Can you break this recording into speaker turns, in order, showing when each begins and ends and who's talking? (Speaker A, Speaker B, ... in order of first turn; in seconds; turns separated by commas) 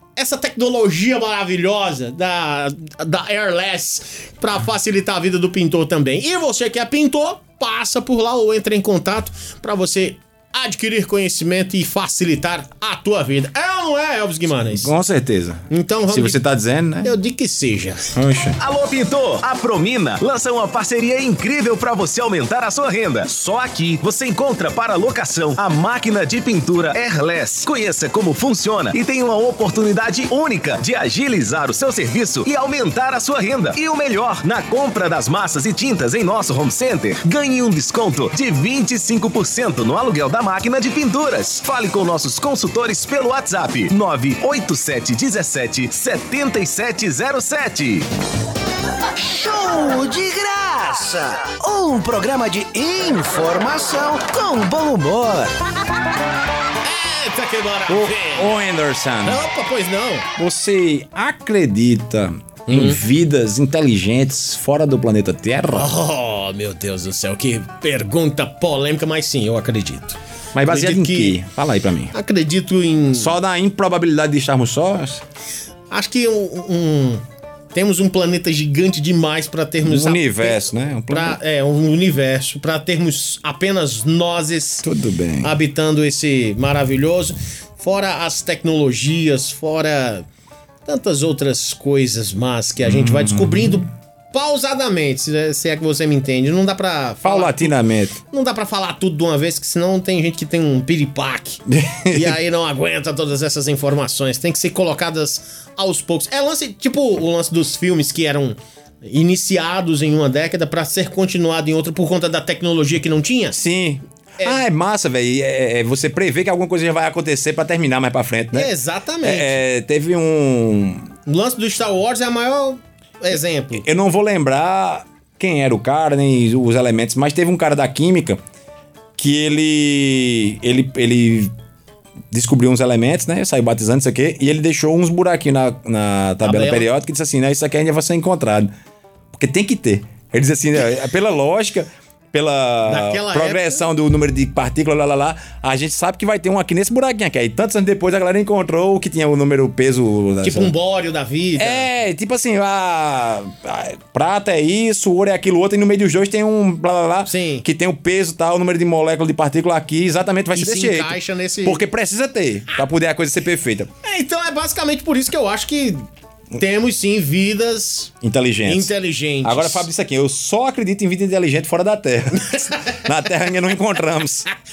Speaker A: 0.2-14.9, Speaker B: 14.7-17.1, Speaker A: 15.7-16.4, Speaker A: 17.0-18.1, Speaker B: 18.1-18.6, Speaker C: 18.6-48.1, Speaker D: 49.2-55.4, Speaker A: 56.8-58.5, Speaker B: 57.9-59.5, Speaker A: 59.2-60.3, Speaker B: 60.4-65.9, Speaker A: 62.7-63.0, Speaker A: 65.7-71.4, Speaker B: 70.5-72.1, Speaker A: 72.1-73.3, Speaker B: 73.1-75.2, Speaker A: 75.9-77.2, Speaker A: 77.7-84.9, Speaker B: 79.8-81.4, Speaker B: 84.8-85.5, Speaker A: 85.4-90.2, Speaker A: 90.9-97.8, Speaker B: 92.8-93.8, Speaker B: 97.2-98.2, Speaker A: 98.3-113.6, Speaker B: 101.7-102.4, Speaker B: 113.5-118.7, Speaker A: 118.5-119.6, Speaker B: 119.2-121.1, Speaker A: 121.3-123.8, Speaker B: 123.8-128.4, Speaker B: 129.2-131.5, Speaker B: 132.3-138.7, Speaker A: 136.4-136.9, Speaker B: 139.3-150.7, Speaker A: 142.8-143.8, Speaker A: 150.4-151.9, Speaker B: 151.6-163.9, Speaker A: 157.3-157.7, Speaker A: 160.5-161.8, Speaker A: 164.0-166.0, Speaker A: 166.6-168.1, Speaker B: 168.2-174.5, Speaker A: 168.7-169.9, Speaker A: 172.4-173.0